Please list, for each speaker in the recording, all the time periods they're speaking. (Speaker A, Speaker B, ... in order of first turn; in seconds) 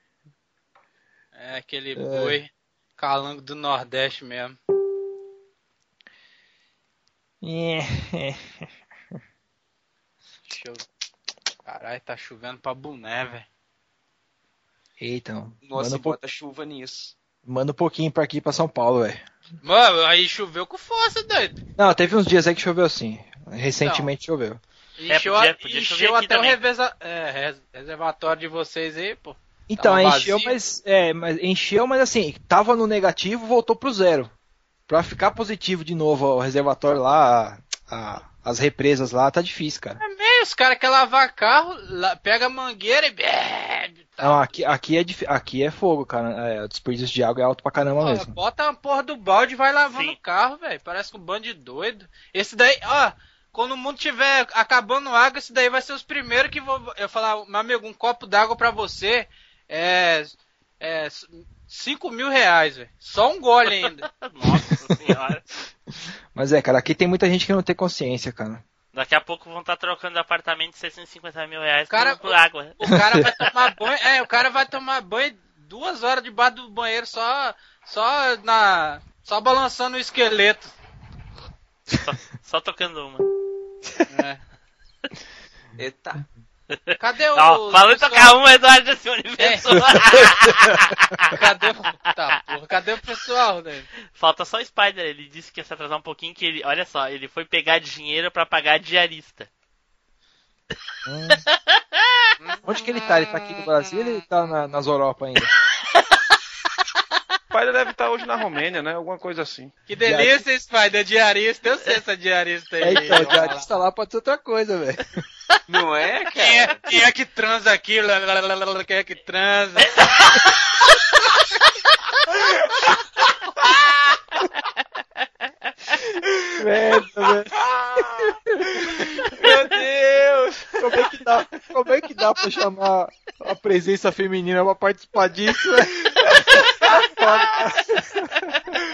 Speaker A: 1.4-4.6, 10.5-10.8, 11.7-13.5, 19.6-21.6, 23.8-24.1, 25.0-30.6, 40.0-44.5, 48.0-64.1, 71.9-80.7, 84.1-84.4, 87.0-88.3, 89.4-89.8, 91.3-93.9, 102.4-103.7, 109.9-113.7, 116.4-119.9
Speaker B: 2.0-2.4, 7.4-8.5, 15.0-16.2, 17.4-19.2, 21.8-24.6, 29.7-34.3, 34.9-40.0, 44.2-48.4, 66.3-68.6, 73.0-73.3, 101.0-101.4, 102.7-105.5, 110.0-110.5, 112.8-115.1, 126.6-127.5, 130.8-136.1, 137.0-138.4
Speaker C: 15.6-17.1, 85.8-86.2, 115.7-116.8, 129.4-130.7
Speaker D: 25.1-26.6, 63.8-65.4, 68.9-72.8, 81.9-83.2, 86.9-91.3, 94.1-99.5
Speaker E: 107.5-109.7